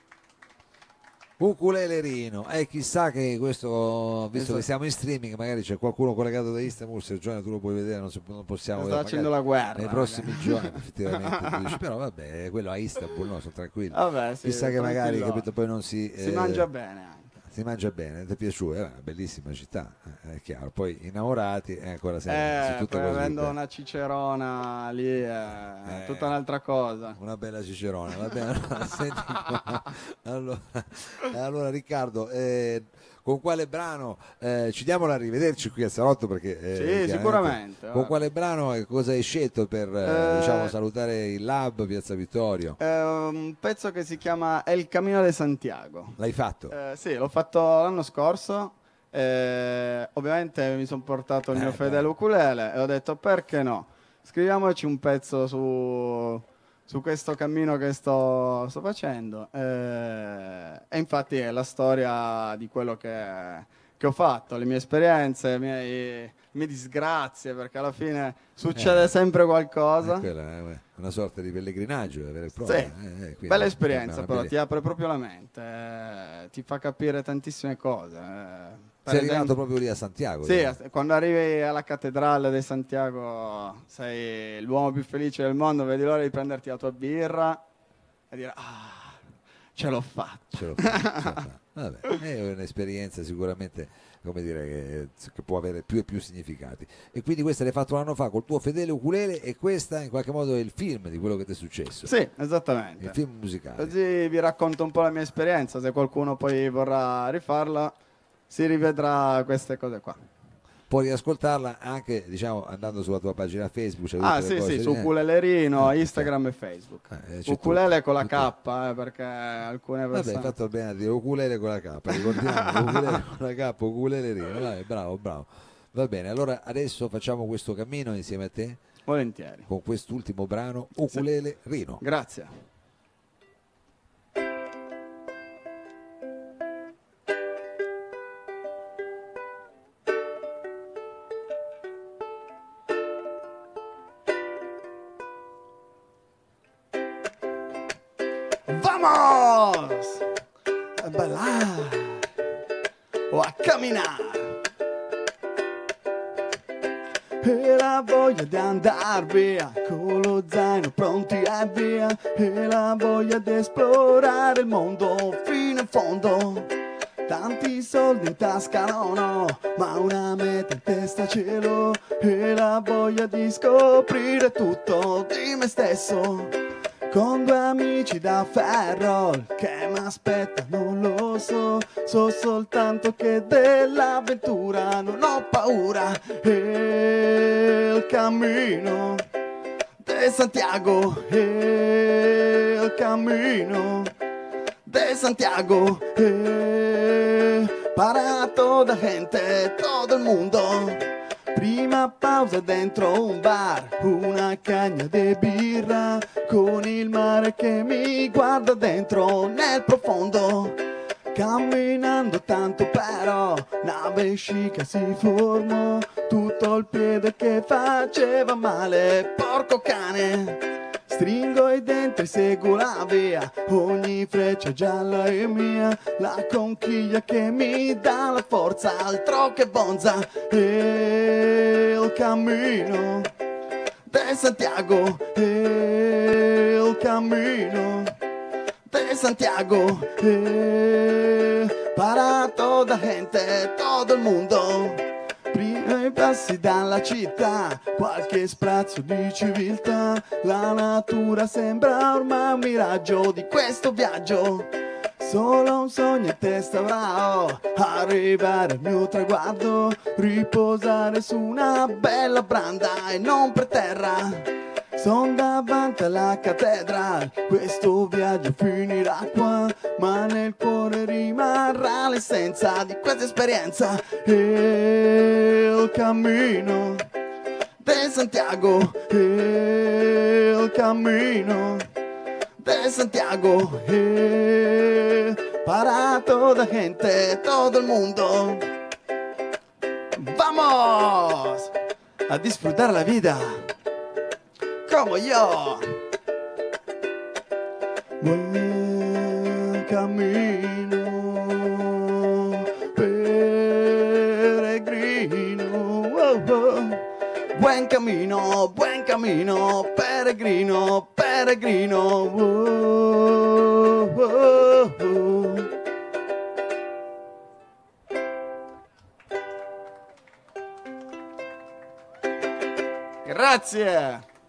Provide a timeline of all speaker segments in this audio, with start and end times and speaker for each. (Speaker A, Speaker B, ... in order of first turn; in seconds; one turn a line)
Speaker A: 1.4-16.7
Speaker B: 4.3-4.7
Speaker B: 8.7-11.8
Speaker B: 13.9-15.5
Speaker B: 16.2-17.3
Speaker A: 17.4-23.5
Speaker B: 22.3-27.2
Speaker A: 25.8-26.4
Speaker A: 27.1-42.8
Speaker B: 36.7-38.2
Speaker B: 40.0-40.7
Speaker B: 42.8-46.2
Speaker A: 46.2-46.7
Speaker B: 46.7-70.3
Speaker A: 51.5-52.1
Speaker A: 68.7-69.2
Speaker A: 70.0-74.5
Speaker B: 72.6-72.9
Speaker B: 73.5-79.5
Speaker A: 79.1-80.8
Speaker B: 80.4-87.6
Speaker B: 88.3-89.2
Speaker B: 89.8-91.4
Speaker A: 90.5-102.1
Speaker B: 102.0-103.2
Speaker A: 103.0-103.9
Speaker B: 103.8-108.0
Speaker B: 108.5-110.2
Speaker A: 110.9-115.1
Speaker B: 114.2-120.5
Speaker A: 115.8-116.3
Speaker A: 117.1-118.5
Speaker A: 120.1-128.8
Speaker B: 122.1-123.2
Speaker B: 129.1-129.7
Speaker A: 129.7-132.0
Speaker B: 132.0-132.5
Speaker B: 148.7-150.3
Speaker B: 151.0-152.3
Speaker B: 153.3-154.6
Speaker B: 157.4-166.7
Speaker B: 167.2-176.6
Speaker B: 177.1-189.2
Speaker B: 190.0-194.1
Speaker B: 194.8-210.8
Speaker B: 211.3-233.3
Speaker B: 234.1-238.2
Speaker B: 238.9-277.1
Speaker B: 277.8-281.9
Speaker B: 282.6-288.7
Speaker B: 290.1-291.7
Speaker B: 292.3-293.7
Speaker B: 294.9-296.0
Speaker B: 298.2-315.7
Speaker B: 323.2-324.2